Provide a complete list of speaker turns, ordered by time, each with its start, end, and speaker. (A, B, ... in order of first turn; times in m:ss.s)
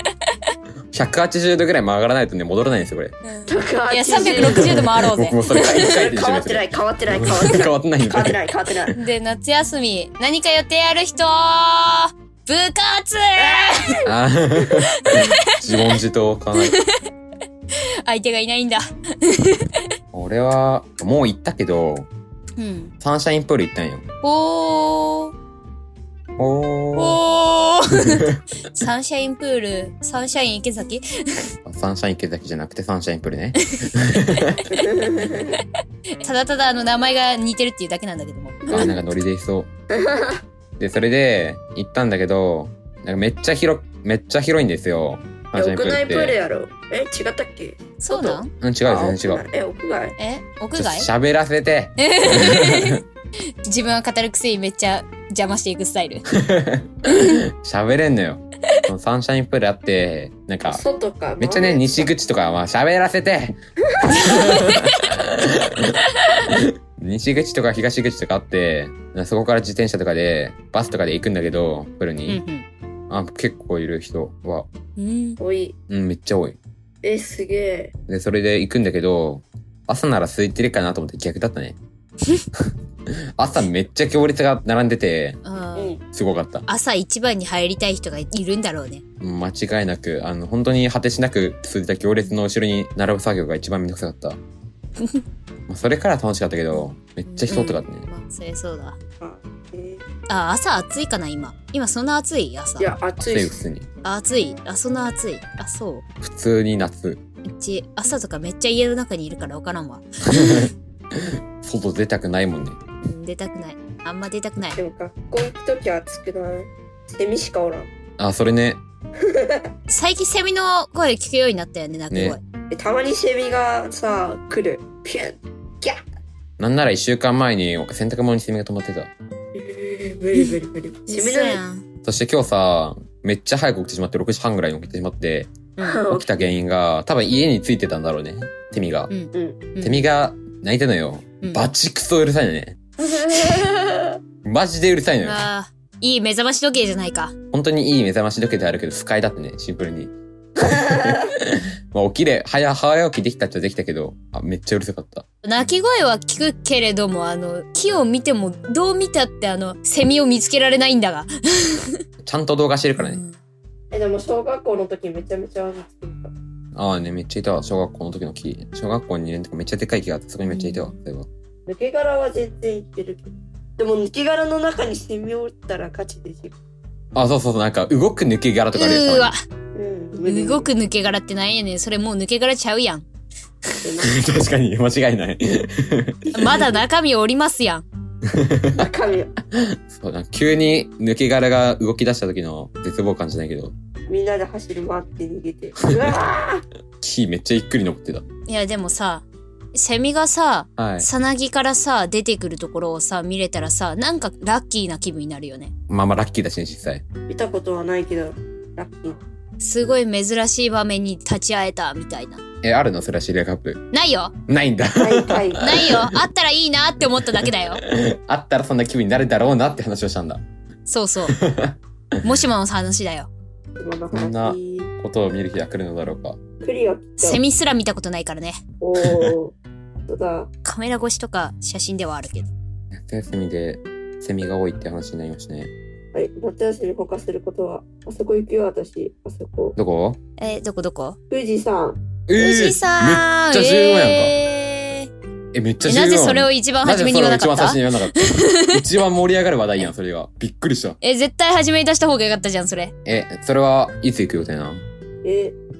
0:00.9-0:03.1 A
0:03.2-0:06.0 B
0:03.5-0:04.9 C
0:04.4-0:09.0 A
0:05.5-0:08.9 C
0:08.9-0:14.0 B
0:14.0-0:16.8 A
0:14.6-0:15.4 B
0:16.6-0:17.0 B
0:18.0-0:19.8 B
0:20.1-0:22.1 A
0:22.6-0:22.9 B
0:23.0-0:24.0 A
0:24.2-0:25.3 B
0:26.4-0:27.2 A
0:26.9-0:31.5 B
0:31.6-0:34.7 A
0:33.8-0:35.6 B
0:34.8-0:35.6 C
0:36.2-0:39.0 B
0:38.6-0:39.0 C
0:38.7-0:39.7 A
0:39.9-0:40.4 C
0:40.8-0:46.4 A
0:45.5-0:50.2 C
0:48.0-0:48.5 B
0:48.6-0:49.4 A
0:50.2-0:51.1 B
0:50.8-0:53.0 A
0:52.0-0:53.0 B
0:53.6-0:56.2 B
0:56.3-1:00.8 A
1:00.7-1:02.1 C
1:01.4-1:03.5 A
1:04.0-1:04.5 C
1:04.1-1:12.4 A
1:04.5-1:05.0 B
1:12.3-1:12.6 B
1:13.1-1:14.7 A
1:15.0-1:15.4 B
1:15.4-1:15.8 C
1:15.9-1:16.6 A
1:17.0-1:17.9 C
1:18.1-1:21.8 A
1:23.4-1:25.4 A
1:25.4-1:26.0 B
1:25.7-1:26.0 C
1:26.1-1:26.6 A
1:26.7-1:29.0 B
1:29.2-1:34.4 A
1:35.7-1:38.1 A
1:37.3-1:39.0 B
1:39.2-1:40.0 C
1:40.3-1:42.9 B
1:42.8-1:43.6 C
1:43.2-1:43.9 A
1:44.0-1:46.0 B
1:46.2-1:47.2 A
1:47.4-1:50.7 B
1:50.3-1:50.7 A
1:51.6-1:52.8 A
1:53.0-1:54.8 B
1:54.7-1:57.9 C
1:58.2-1:58.8 A
1:59.2-1:59.6 C
1:59.9-2:02.4 B
2:02.1-2:02.4 A
2:02.7-2:06.0 C
2:06.6-2:09.1 A
2:09.5-2:11.6 C
2:11.1-2:11.9 B
2:12.0-2:15.6 A
2:15.8-2:16.1 B
2:15.8-2:16.3 C
2:16.1-2:19.1 A
2:19.1-2:20.1 B
2:19.3-2:19.6 C
2:19.8-2:22.8 A
2:23.0-2:24.1 C
2:24.4-2:25.4 A
2:25.2-2:27.3 B
2:27.5-2:35.2 A
2:35.4-2:42.0 B
2:42.2-2:43.2 A
2:43.0-2:43.3 B
2:43.9-2:46.3 C
2:46.7-2:51.3 A
2:50.5-2:50.8 B
2:51.6-2:56.6 C
2:57.1-2:59.3 A
2:58.7-2:59.4 B
2:59.7-3:00.7 C
3:00.2-3:03.0 B
3:03.8-3:04.2 C
3:04.0-3:06.6 A
3:06.3-3:07.8 B
3:08.3-3:08.8 A
3:08.7-3:09.3 C
3:09.5-3:13.7 A
3:14.1-3:16.6 C
3:17.0-3:18.2 A
3:18.5-3:25.7 B
3:20.8-3:21.1 A
3:25.9-3:27.0 A
3:27.3-3:29.2 C
3:29.6-3:32.4 B
3:32.6-3:33.8 A
3:33.9-3:34.4 B
3:34.5-3:36.1 A
3:35.0-3:35.7 C
3:35.6-3:37.8 B
3:37.8-3:40.4 A
3:40.9-3:41.4 B
3:41.3-3:41.7 A
3:42.2-3:43.3 B
3:43.8-3:44.9 C
3:44.1-3:46.4 A
3:46.6-3:47.4 C
3:47.2-3:48.6 B
3:48.8-3:49.6 C
3:49.0-3:49.3 A
3:50.1-3:50.5 C
3:50.6-3:52.5 B
3:52.9-3:55.7 A
3:56.1-3:59.8 C
3:59.8-4:00.2 A
4:00.4-4:01.2 B
4:01.3-4:02.0 C
4:02.3-4:04.3 A
4:02.4-4:05.1 B
4:05.5-4:11.0 A
4:05.8-4:08.7 B
4:11.0-4:12.9 B
4:13.0-4:14.8 A
4:15.2-4:15.6 C